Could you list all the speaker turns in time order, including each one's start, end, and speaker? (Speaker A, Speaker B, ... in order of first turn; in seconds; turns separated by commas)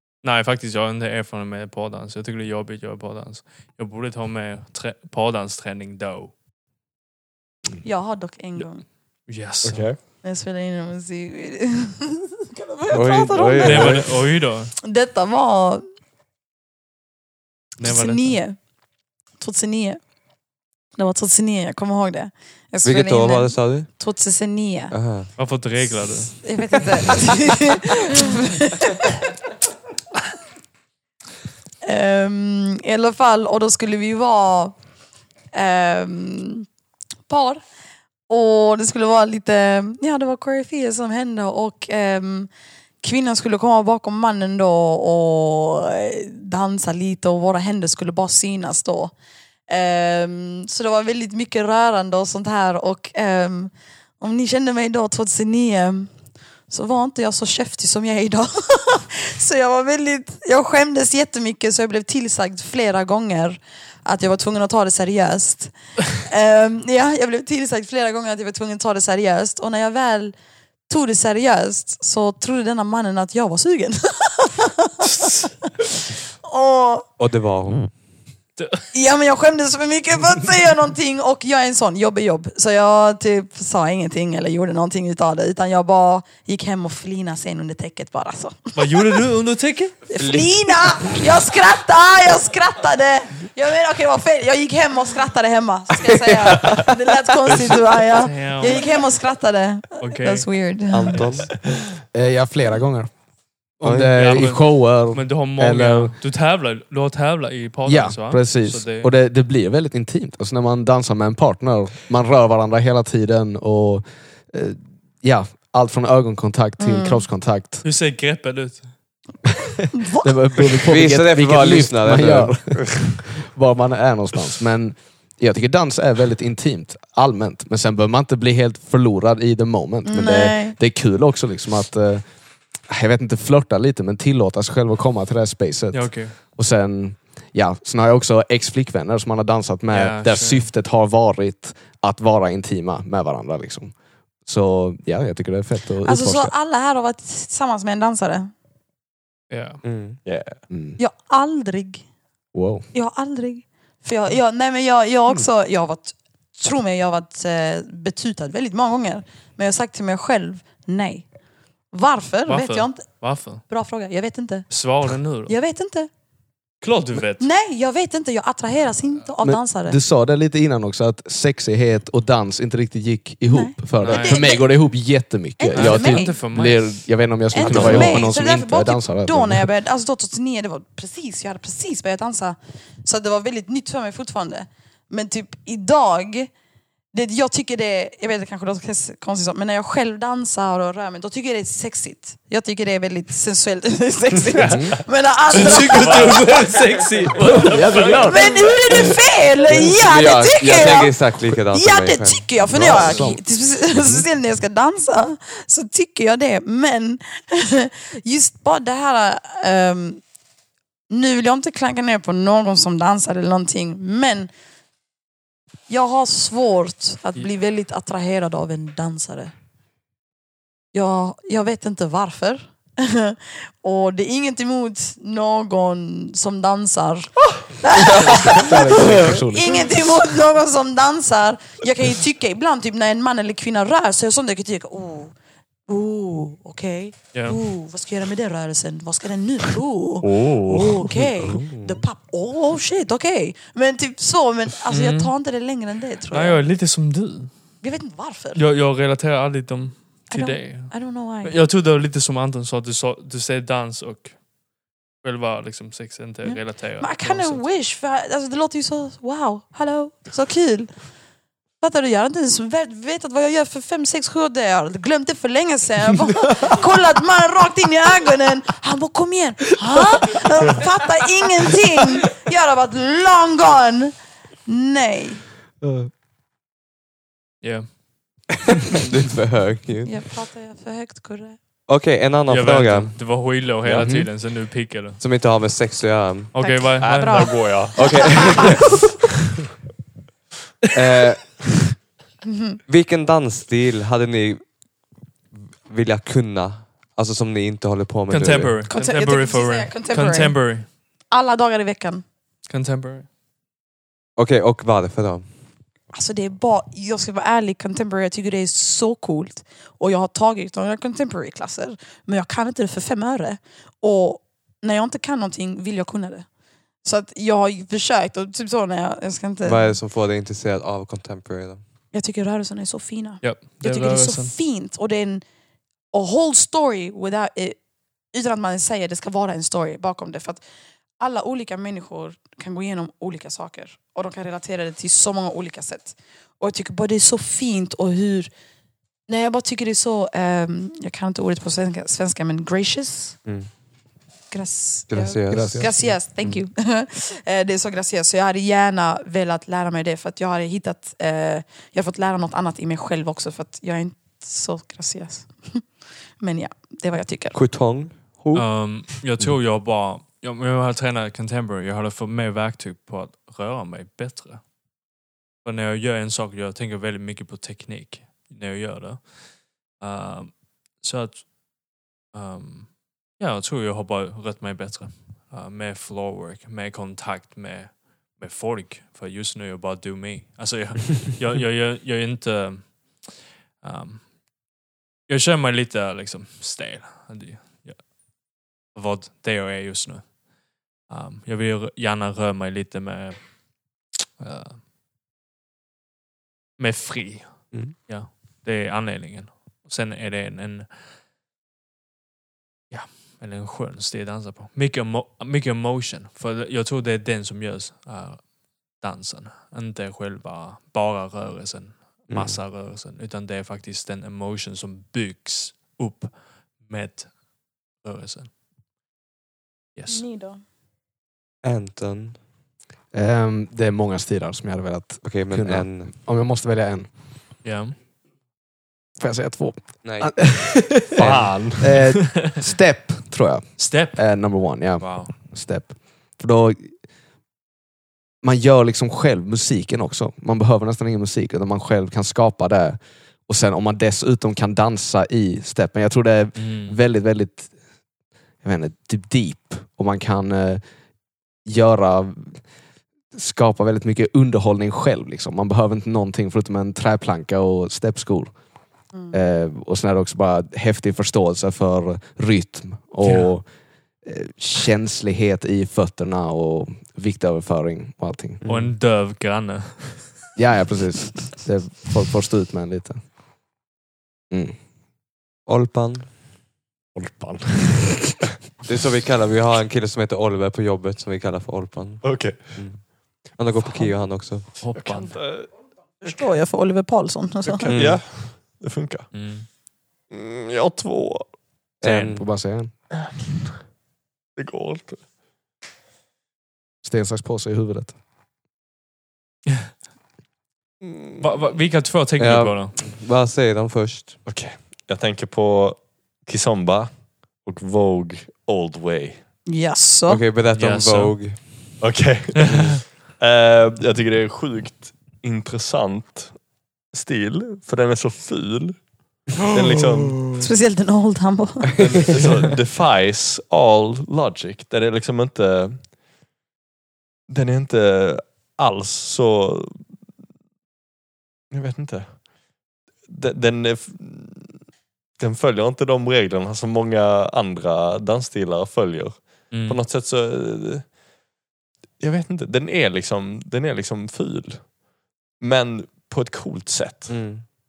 Speaker A: 0.2-6.3, Speaker B: 7.8-8.8, Speaker A: 9.3-9.9, Speaker C: 9.6-10.0, Speaker B: 10.2-14.2, Speaker D: 12.9-14.0, Speaker A: 13.6-14.7, Speaker B: 14.8-15.8, Speaker A: 17.8-18.4, Speaker B: 17.8-18.6, Speaker B: 19.4-20.0, Speaker B: 20.9-24.9, Speaker D: 22.8-23.9, Speaker D: 24.9-25.3, Speaker A: 25.4-26.3, Speaker B: 26.3-29.2, Speaker B: 31.8-34.8, Speaker B: 35.5-36.6, Speaker B: 37.3-37.6, Speaker B: 38.3-42.5, Speaker B: 43.0-49.1, Speaker B: 49.7-56.1, Speaker B: 56.7-70.3, Speaker B: 70.9-75.0, Speaker A: 75.0-75.5, Speaker B: 76.4-77.0, Speaker D: 77.2-77.9, Speaker A: 78.6-78.9, Speaker B: 78.9-88.9, Speaker A: 88.7-89.9, Speaker B: 90.1-101.3, Speaker D: 90.2-90.5, Speaker D: 96.1-96.9, Speaker D: 97.5-97.7, Speaker A: 98.2-98.8, Speaker A: 100.0-100.5, Speaker D: 100.9-101.5, Speaker E: 102.1-103.1, Speaker E: 103.8-106.1, Speaker D: 103.8-104.1, Speaker A: 104.1-109.1, Speaker E: 107.8-117.8, Speaker B: 116.8-117.2, Speaker A: 117.8-118.9, Speaker B: 119.9-120.3, Speaker E: 120.1-146.5, Speaker D: 120.9-122.6, Speaker C: 122.8-123.1, Speaker B: 130.0-130.8, Speaker A: 135.9-136.4, Speaker A: 139.9-140.7, Speaker B: 146.0-148.5, Speaker A: 149.5-149.8, Speaker D: 149.8-150.2, Speaker C: 150.2-150.6, Speaker E: 150.7-151.0, Speaker B: 151.0-152.0, Speaker E: 152.5-152.9, Speaker B: 152.9-161.3, Speaker B: 161.9-164.8, Speaker A: 162.4-163.6, Speaker A: 164.7-165.5, Speaker B: 165.4-166.1, Speaker A: 166.8-167.5, Speaker B: 167.4-170.0, Speaker E: 169.4-179.7, Speaker B: 173.5-174.7, Speaker A: 174.0-174.4, Speaker B: 175.6-176.4, Speaker A: 175.7-177.1, Speaker B: 177.5-186.5, Speaker C: 177.6-178.2, Speaker A: 177.7-178.2, Speaker B: 187.1-196.7, Speaker C: 194.6-195.0, Speaker E: 194.6-194.9, Speaker A: 195.5-198.6, Speaker C: 196.0-196.4, Speaker E: 197.5-198.7, Speaker B: 198.2-210.2, Speaker D: 199.9-203.2, Speaker E: 202.7-204.2, Speaker B: 211.1-214.5, Speaker B: 215.9-219.5, Speaker B: 220.9-235.3, Speaker E: 228.1-230.0, Speaker B: 235.9-246.6, Speaker A: 237.3-237.6, Speaker C: 240.2-241.1, Speaker D: 241.4-242.0, Speaker A: 244.9-245.3, Speaker A: 246.3-247.6, Speaker B: 247.8-248.6, Speaker A: 248.5-254.4, Speaker B: 250.3-251.6, Speaker A: 255.2-257.6, Speaker B: 256.4-261.0, Speaker B: 261.8-274.1, Speaker B: 274.6-275.5, Speaker E: 275.8-276.1, Speaker A: 277.6-277.9, Speaker D: 278.9-280.2, Speaker B: 280.0-281.6, Speaker D: 281.9-283.2, Speaker A: 282.5-285.2, Speaker E: 284.0-284.3, Speaker D: 285.2-286.5, Speaker A: 286.5-287.6, Speaker B: 286.6-289.1, Speaker C: 287.0-288.7, Speaker D: 287.9-289.0, Speaker D: 290.9-291.8, Speaker B: 292.5-292.8, Speaker D: 292.9-294.9, Speaker D: 295.9-298.8, Speaker A: 298.3-300.9, Speaker B: 298.9-302.2, Speaker A: 302.6-303.3, Speaker D: 304.4-305.5, Speaker B: 306.1-320.0, Speaker D: 319.6-321.8, Speaker B: 322.1-325.4, Speaker A: 323.4-324.5, Speaker B: 326.1-330.6, Speaker B: 331.2-338.5, Speaker B: 339.3-343.4, Speaker D: 343.4-343.7, Speaker B: 344.5-355.9, Speaker D: 345.1-346.1, Speaker E: 345.5-346.5, Speaker B: 356.4-357.6, Speaker D: 357.5-358.8, Speaker A: 358.5-364.6, Speaker A: 365.6-371.5, Speaker A: 372.3-384.3, Speaker A: 385.3-388.1, Speaker A: 388.9-390.4, Speaker A: 391.1-393.6, Speaker A: 394.4-394.8, Speaker A: 396.8-401.0, Speaker A: 402.9-418.5, Speaker D: 412.3-412.6, Speaker A: 419.9-420.2, Speaker B: 420.1-420.6, Speaker D: 421.6-422.4, Speaker E: 423.1-427.1, Speaker D: 425.2-426.1, Speaker A: 427.6-427.9, Speaker E: 429.2-436.9, Speaker D: 430.0-430.5, Speaker C: 431.1-432.0, Speaker A: 431.9-432.5, Speaker A: 433.8-435.3, Speaker E: 438.4-447.7, Speaker A: 446.6-447.0, Speaker E: 448.6-450.8, Speaker E: 451.6-452.6, Speaker E: 453.3-458.5, Speaker E: 459.3-463.7, Speaker A: 463.2-463.5, Speaker E: 464.2-468.6, Speaker D: 468.6-468.9, Speaker A: 468.6-470.4, Speaker E: 470.6-473.2, Speaker E: 474.5-474.8, Speaker D: 475.6-476.3, Speaker C: 477.1-478.4, Speaker D: 478.8-484.8, Speaker C: 482.2-482.9, Speaker A: 484.8-485.4, Speaker C: 484.9-486.4, Speaker B: 486.2-488.1, Speaker C: 487.7-489.3, Speaker D: 487.9-488.2, Speaker A: 489.3-489.7, Speaker C: 490.3-491.5, Speaker D: 492.0-492.5, Speaker A: 492.0-492.4, Speaker E: 492.4-492.9, Speaker C: 494.6-495.2, Speaker E: 497.0-498.1, Speaker C: 501.0-501.7, Speaker A: 501.4-503.0, Speaker D: 502.4-504.4, Speaker C: 504.4-509.5, Speaker B: 509.6-510.4, Speaker D: 510.3-511.9, Speaker A: 510.7-511.6, Speaker C: 512.0-516.6, Speaker A: 512.6-512.8, Speaker C: 517.1-520.6, Speaker B: 520.6-522.4, Speaker C: 521.9-526.1, Speaker C: 527.5-530.1, Speaker C: 531.7-532.4, Speaker C: 533.2-534.8, Speaker C: 535.4-541.1, Speaker A: 539.7-540.0, Speaker C: 542.2-544.9, Speaker C: 545.6-547.4, Speaker D: 547.3-547.7